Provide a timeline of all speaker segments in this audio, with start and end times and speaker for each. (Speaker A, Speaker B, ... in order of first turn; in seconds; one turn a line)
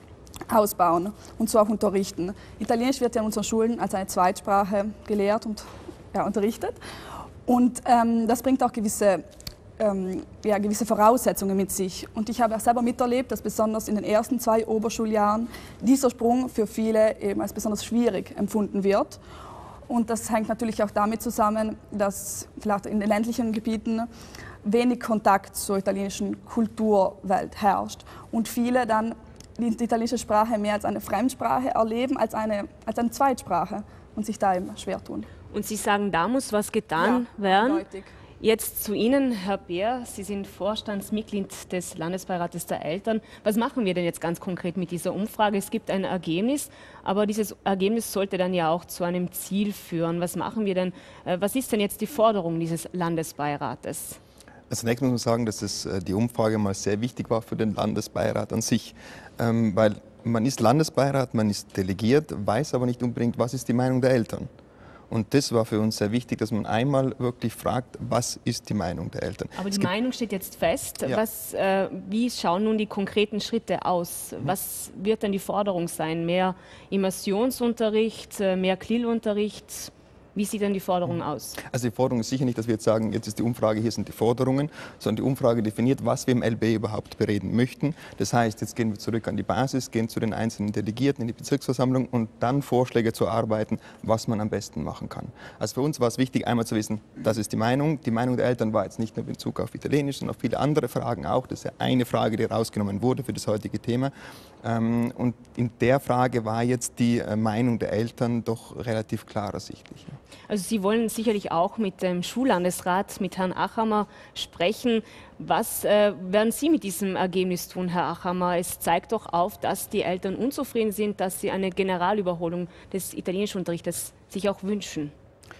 Speaker A: 0.5-6.8
Speaker A: 7.5-9.2
Speaker A: 9.8-19.2
Speaker A: 19.9-24.1
Speaker A: 24.6-35.3
Speaker B: 35.5-37.8
Speaker A: 37.0-38.1
Speaker B: 38.4-54.2
Speaker C: 54.7-64.5
Speaker C: 65.1-69.9
Speaker B: 69.5-81.6
Speaker C: 81.7-110.2
Speaker B: 110.5-125.1